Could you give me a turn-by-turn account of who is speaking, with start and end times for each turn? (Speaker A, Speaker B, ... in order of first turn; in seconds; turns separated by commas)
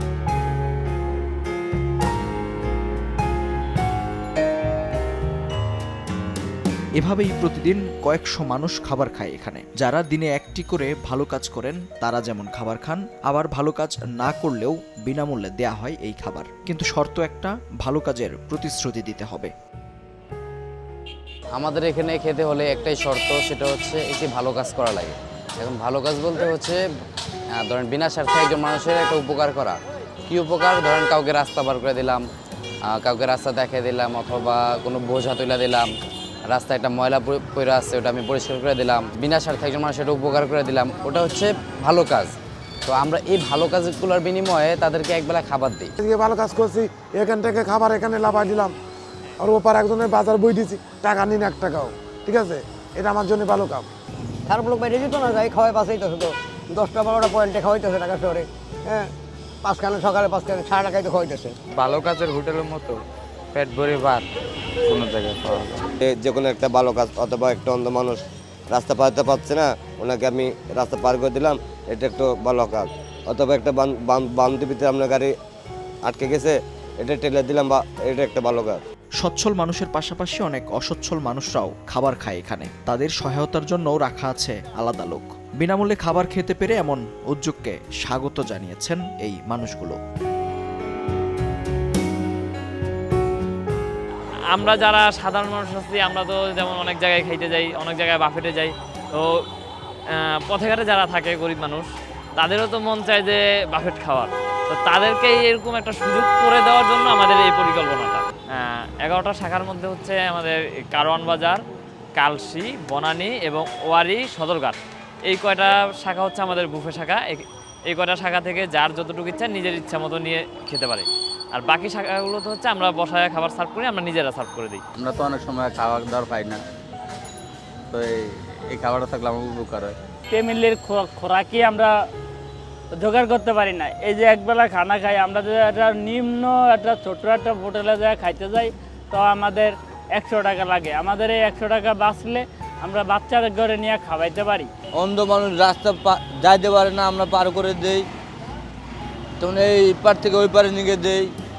Speaker A: 7.0-19.5, Speaker B: 21.5-26.8, Speaker B: 27.6-29.8, Speaker B: 30.3-32.2, Speaker B: 32.9-35.9, Speaker B: 36.5-42.3, Speaker B: 42.9-45.9, Speaker C: 46.0-48.7, Speaker C: 49.4-53.9, Speaker D: 54.5-59.1, Speaker D: 59.6-61.5, Speaker E: 66.0-68.2, Speaker E: 68.7-75.3, Speaker E: 76.0-78.8, Speaker A: 79.2-90.0, Speaker F: 94.5-99.4, Speaker F: 100.4-111.6, Speaker F: 112.2-124.8, Speaker G: 125.0-126.6, Speaker G: 127.9-129.9, Speaker H: 130.3-131.9, Speaker H: 132.9-144.7, Speaker I: 144.9-148.0, Speaker I: 149.4-151.3